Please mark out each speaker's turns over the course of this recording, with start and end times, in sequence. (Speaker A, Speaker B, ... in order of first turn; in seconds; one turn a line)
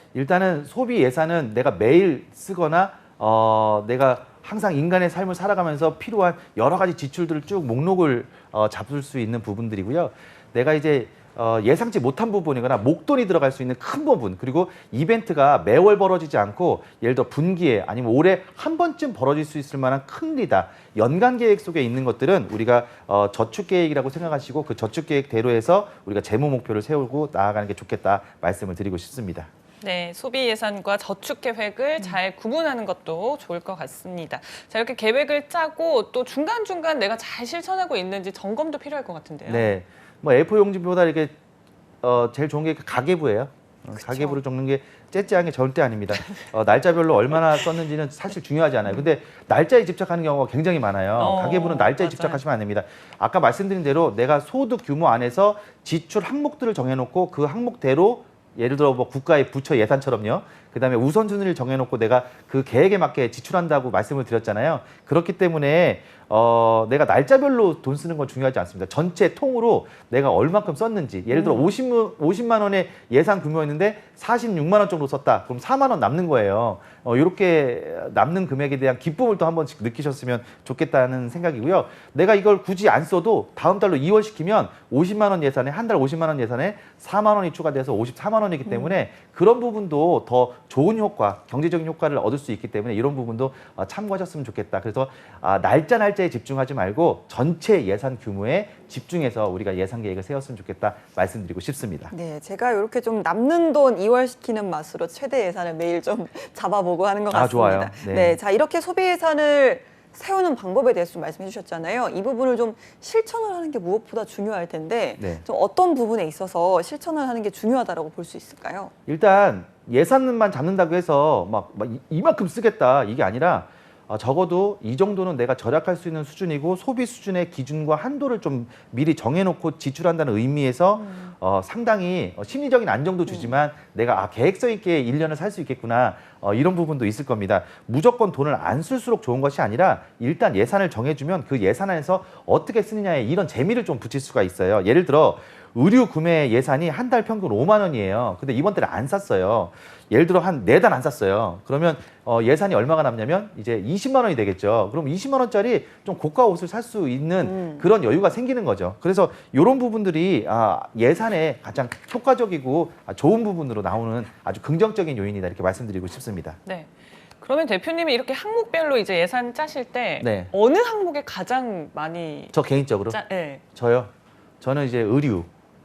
Speaker A: 0.1-29.5
Speaker B: 29.8-39.7
Speaker A: 39.5-41.3
Speaker A: 42.0-102.1
Speaker B: 51.1-52.4
Speaker C: 88.7-89.0
Speaker C: 102.1-118.9
Speaker A: 107.3-108.4
Speaker A: 115.2-115.4
Speaker A: 119.1-166.6
Speaker C: 133.3-133.5
Speaker C: 157.4-157.9
Speaker B: 166.6-172.6
Speaker A: 170.2-170.5
Speaker A: 172.5-173.2
Speaker B: 173.1-173.6
Speaker A: 173.7-175.5